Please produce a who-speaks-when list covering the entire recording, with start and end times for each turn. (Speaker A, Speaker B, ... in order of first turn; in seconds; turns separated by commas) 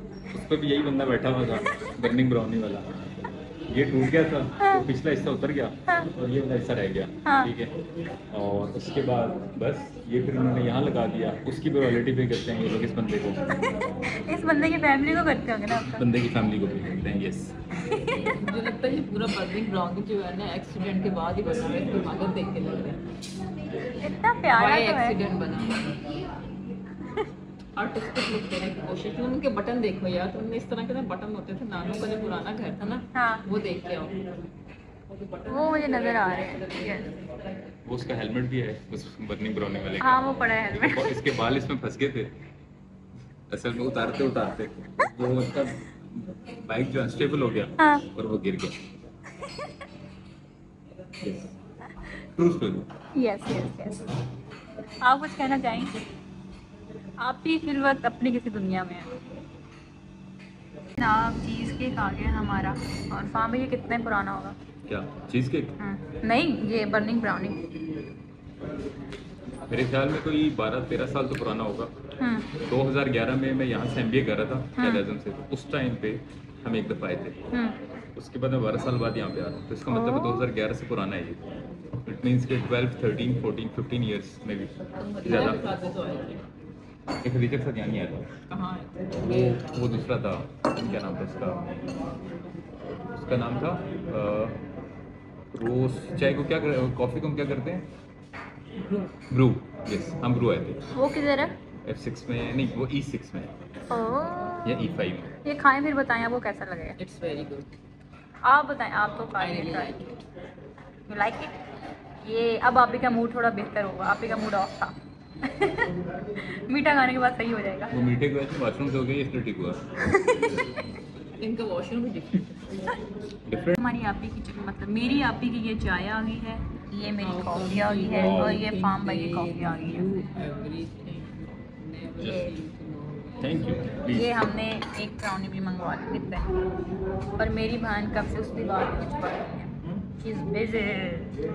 Speaker A: 0.3-7.7, Speaker B: 7.2-7.5, Speaker A: 8.3-13.6, Speaker B: 13.6-16.1, Speaker A: 15.8-17.6, Speaker B: 17.9-18.4, Speaker C: 18.3-23.0, Speaker B: 24.0-25.2, Speaker C: 24.5-26.0, Speaker C: 27.8-34.2, Speaker B: 33.1-33.5, Speaker B: 35.5-37.1, Speaker C: 35.8-36.6, Speaker A: 37.9-42.4, Speaker B: 40.0-41.2, Speaker A: 43.5-48.8, Speaker B: 47.8-48.0, Speaker A: 51.2-51.6, Speaker A: 52.2-52.9, Speaker B: 53.1-54.1, Speaker B: 55.0-56.0, Speaker B: 57.2-59.1, Speaker B: 61.0-64.6, Speaker A: 64.9-65.8, Speaker B: 65.8-67.6, Speaker A: 69.7-71.9, Speaker B: 72.2-72.5, Speaker A: 72.6-77.5, Speaker B: 74.8-75.0, Speaker B: 77.5-77.8, Speaker A: 78.2-81.4, Speaker B: 79.9-80.5, Speaker A: 82.0-85.7, Speaker C: 85.0-86.5, Speaker A: 87.2-88.3, Speaker C: 88.5-89.6, Speaker A: 89.2-91.7, Speaker A: 93.2-94.6, Speaker A: 95.5-97.9, Speaker A: 99.3-100.8, Speaker B: 100.9-101.6, Speaker A: 101.8-103.5, Speaker B: 103.9-104.9, Speaker A: 104.6-105.3, Speaker B: 105.4-107.0, Speaker C: 107.0-107.7, Speaker B: 108.4-110.1, Speaker C: 109.4-110.1, Speaker B: 111.1-111.5, Speaker B: 112.2-117.9, Speaker A: 117.9-119.8, Speaker B: 120.1-120.7, Speaker C: 121.4-122.8, Speaker A: 123.5-123.8, Speaker B: 123.8-130.3, Speaker C: 127.2-133.4, Speaker A: 128.1-128.6, Speaker A: 132.2-132.5, Speaker B: 132.2-132.5, Speaker A: 133.4-134.4, Speaker B: 134.1-136.5, Speaker B: 137.4-141.3